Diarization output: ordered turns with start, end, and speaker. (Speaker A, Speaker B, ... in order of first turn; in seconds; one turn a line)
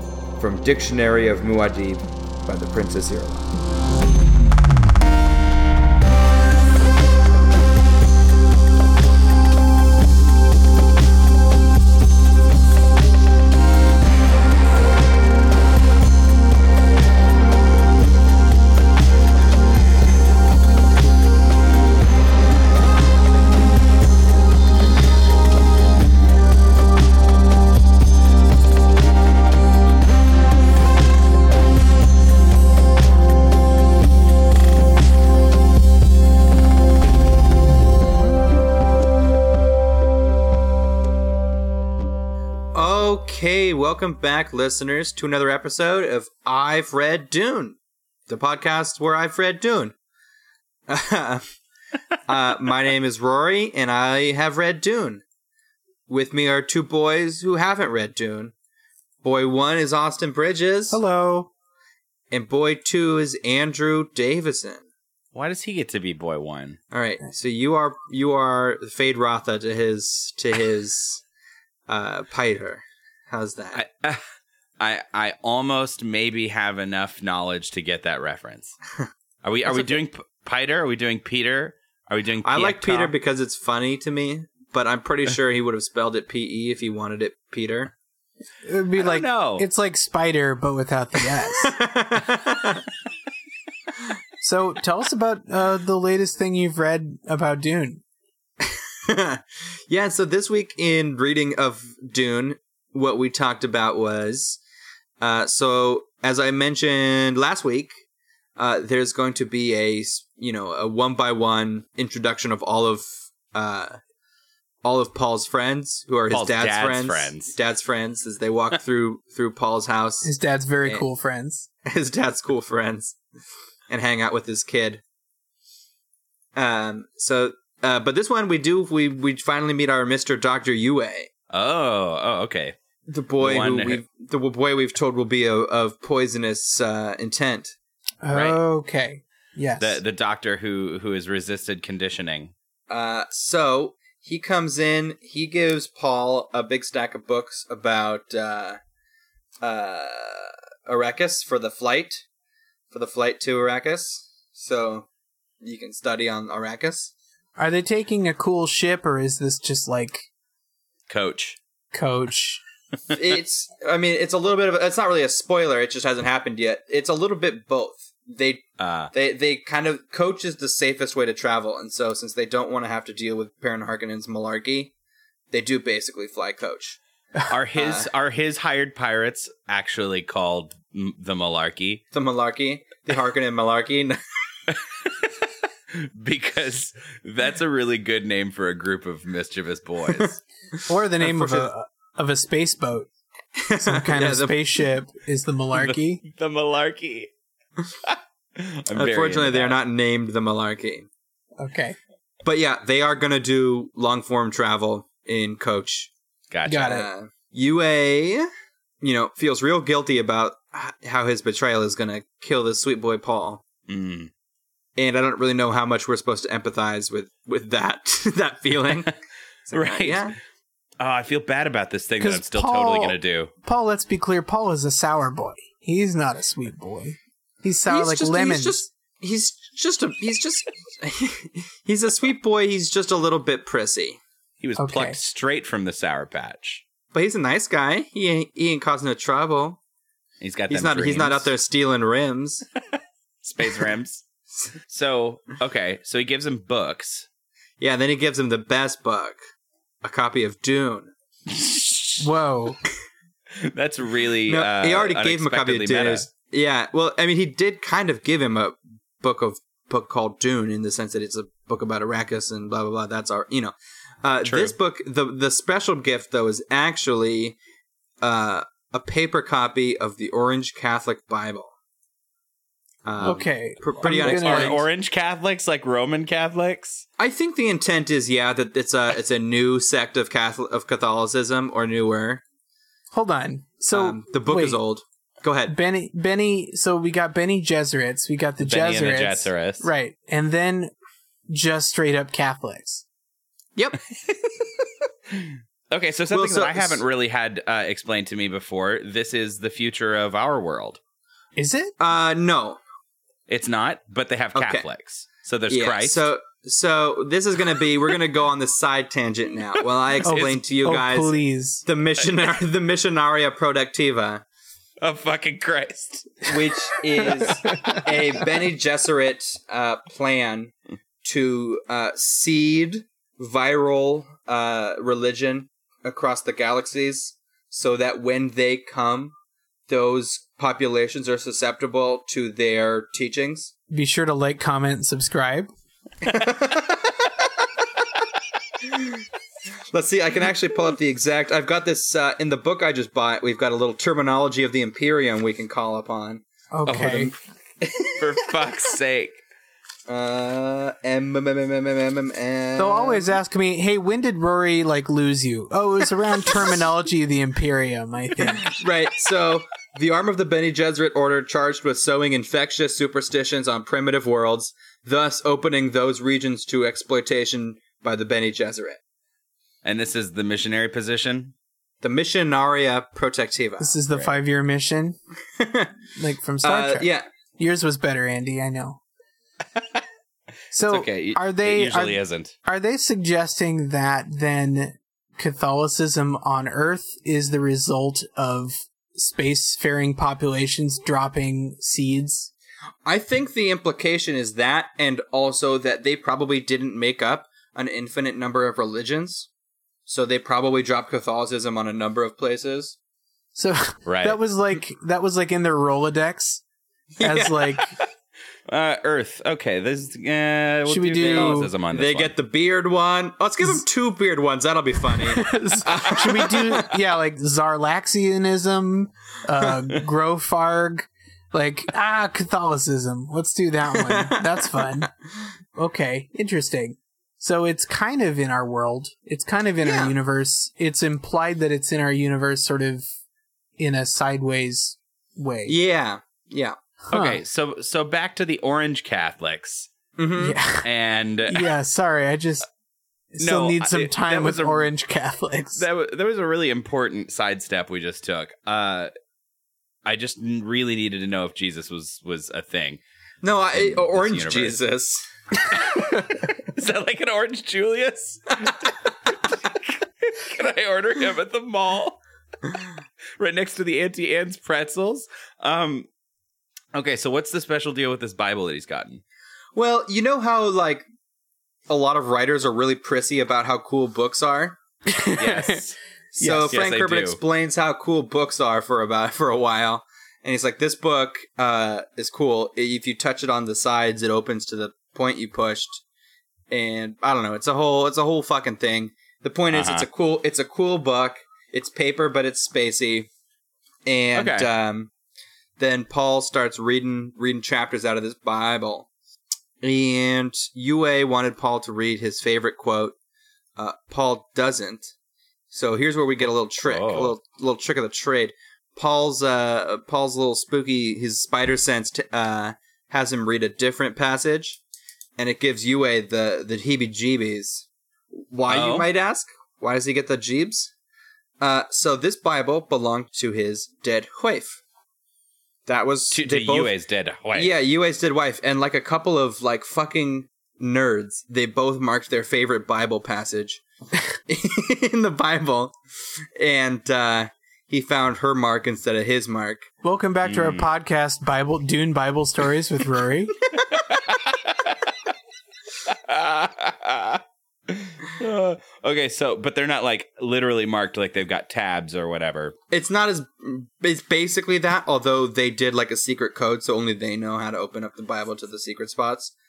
Speaker A: 0.4-3.5
Speaker A: 42.7-47.8
Speaker A: 48.3-50.0
Speaker A: 50.9-51.4
Speaker A: 52.2-55.2
Speaker A: 56.1-58.5
Speaker A: 59.2-61.0
Speaker B: 60.9-61.5
Speaker A: 62.3-64.8
Speaker C: 65.3-66.8
Speaker A: 66.9-71.2
Speaker A: 71.9-73.8
Speaker C: 73.7-74.2
Speaker C: 74.8-78.8
Speaker C: 79.4-83.1
Speaker A: 79.7-80.0
Speaker A: 82.4-87.9
Speaker B: 88.6-91.8
Speaker C: 89.0-89.7
Speaker A: 91.6-92.8
Speaker B: 94.4-98.0
Speaker A: 99.1-104.6
Speaker A: 105.2-107.9
Speaker A: 108.6-114.0
Speaker A: 114.8-120.3
Speaker C: 116.3-117.5
Speaker B: 120.2-121.7
Speaker A: 121.8-123.2
Speaker A: 123.9-125.0
Speaker A: 126.5-131.3
Speaker C: 131.5-132.8
Speaker A: 133.1-137.8
Speaker C: 133.4-134.0
Speaker B: 138.2-140.0
Speaker C: 138.3-138.6
Speaker C: 139.8-142.5
Speaker A: 142.9-148.8
Speaker A: 149.6-152.2
Speaker A: 152.9-155.1
Speaker A: 155.6-157.1
Speaker B: 157.6-160.3
Speaker C: 161.1-161.6
Speaker B: 161.9-162.6
Speaker A: 163.1-174.9
Speaker C: 168.8-169.1
Speaker A: 175.5-177.0
Speaker C: 177.5-182.0
Speaker A: 177.8-178.1
Speaker A: 182.1-184.2
Speaker C: 184.7-185.1
Speaker C: 186.2-190.4
Speaker B: 190.9-193.1
Speaker A: 191.2-191.7
Speaker A: 193.6-194.6
Speaker B: 193.8-196.2
Speaker C: 195.7-197.3
Speaker C: 198.1-199.8
Speaker A: 198.9-201.1
Speaker B: 201.6-202.0
Speaker A: 202.4-206.1
Speaker C: 206.5-206.9
Speaker B: 206.7-207.1
Speaker A: 206.8-208.5
Speaker A: 209.0-213.6
Speaker C: 213.9-214.3
Speaker A: 215.0-219.1
Speaker A: 219.7-220.3
Speaker C: 219.7-220.3
Speaker C: 221.0-223.5
Speaker B: 222.2-228.8
Speaker A: 227.9-234.2
Speaker C: 234.6-236.8
Speaker B: 234.8-235.2
Speaker A: 237.1-239.8
Speaker C: 240.4-241.5
Speaker A: 240.7-242.7
Speaker C: 243.4-244.2
Speaker C: 244.9-247.3
Speaker A: 247.8-249.4
Speaker A: 250.0-251.1
Speaker C: 251.5-252.3
Speaker B: 252.2-252.8
Speaker C: 253.7-256.3
Speaker A: 254.5-267.6
Speaker C: 264.4-264.8
Speaker A: 268.2-271.7
Speaker A: 273.1-274.8
Speaker B: 273.2-274.8
Speaker C: 274.0-277.1
Speaker A: 277.2-282.4
Speaker B: 283.1-284.8
Speaker A: 283.9-285.8
Speaker B: 285.7-290.9
Speaker C: 288.6-289.9
Speaker B: 291.5-293.0
Speaker A: 293.8-294.1
Speaker C: 295.4-301.0
Speaker A: 296.3-297.0
Speaker B: 301.6-301.9
Speaker A: 302.0-302.8
Speaker C: 303.5-306.3
Speaker A: 304.6-304.9
Speaker A: 305.7-314.4
Speaker B: 310.2-311.8
Speaker C: 315.0-316.5
Speaker A: 316.5-329.4
Speaker B: 317.6-318.0
Speaker A: 329.9-333.7
Speaker B: 333.9-335.7
Speaker A: 336.2-337.4
Speaker A: 339.9-346.4
Speaker B: 346.7-347.3
Speaker C: 346.9-347.3
Speaker A: 347.8-348.2
Speaker C: 348.2-349.4
Speaker A: 350.1-353.4
Speaker B: 352.8-358.7
Speaker A: 358.5-369.0
Speaker C: 369.8-371.5
Speaker A: 372.0-373.9
Speaker B: 373.8-375.2
Speaker A: 375.6-375.9
Speaker B: 376.2-379.0
Speaker A: 376.6-377.3
Speaker B: 380.7-392.5
Speaker C: 380.9-382.6
Speaker A: 393.1-399.5
Speaker A: 400.1-403.0
Speaker B: 403.6-406.6
Speaker C: 404.1-404.4
Speaker A: 407.1-407.7
Speaker B: 407.2-408.0
Speaker C: 408.7-412.3
Speaker B: 410.9-411.7
Speaker A: 411.3-416.8
Speaker B: 415.2-425.1
Speaker A: 424.0-424.8
Speaker B: 425.8-433.1
Speaker A: 429.8-430.1
Speaker B: 433.8-435.8
Speaker A: 435.7-436.8
Speaker B: 437.1-437.4
Speaker C: 437.1-439.9
Speaker A: 440.2-440.6
Speaker B: 440.4-440.9
Speaker C: 440.8-441.7
Speaker B: 441.5-442.7
Speaker B: 443.3-445.9
Speaker C: 443.4-444.9
Speaker C: 445.8-449.1
Speaker C: 450.1-453.0
Speaker A: 453.4-455.3
Speaker C: 453.7-454.8
Speaker C: 455.8-462.2
Speaker C: 463.4-466.1
Speaker C: 466.9-469.2
Speaker A: 469.8-471.1
Speaker A: 471.9-474.8
Speaker B: 475.1-475.8
Speaker C: 475.4-477.4
Speaker A: 476.4-486.0
Speaker A: 486.7-493.3
Speaker C: 489.7-490.1
Speaker A: 494.1-495.1
Speaker C: 494.4-494.7
Speaker A: 495.8-499.1
Speaker A: 499.8-503.1
Speaker A: 503.8-505.1
Speaker A: 505.7-514.8
Speaker C: 506.9-507.4
Speaker A: 515.4-517.9
Speaker A: 518.5-520.9
Speaker C: 518.7-519.1
Speaker A: 521.6-524.8
Speaker A: 525.9-526.9
Speaker C: 526.3-527.7
Speaker A: 527.5-533.8
Speaker A: 534.5-536.0
Speaker A: 536.6-539.9
Speaker B: 540.0-543.5
Speaker C: 540.4-540.9
Speaker C: 543.9-545.1
Speaker C: 546.1-552.8
Speaker A: 552.9-559.5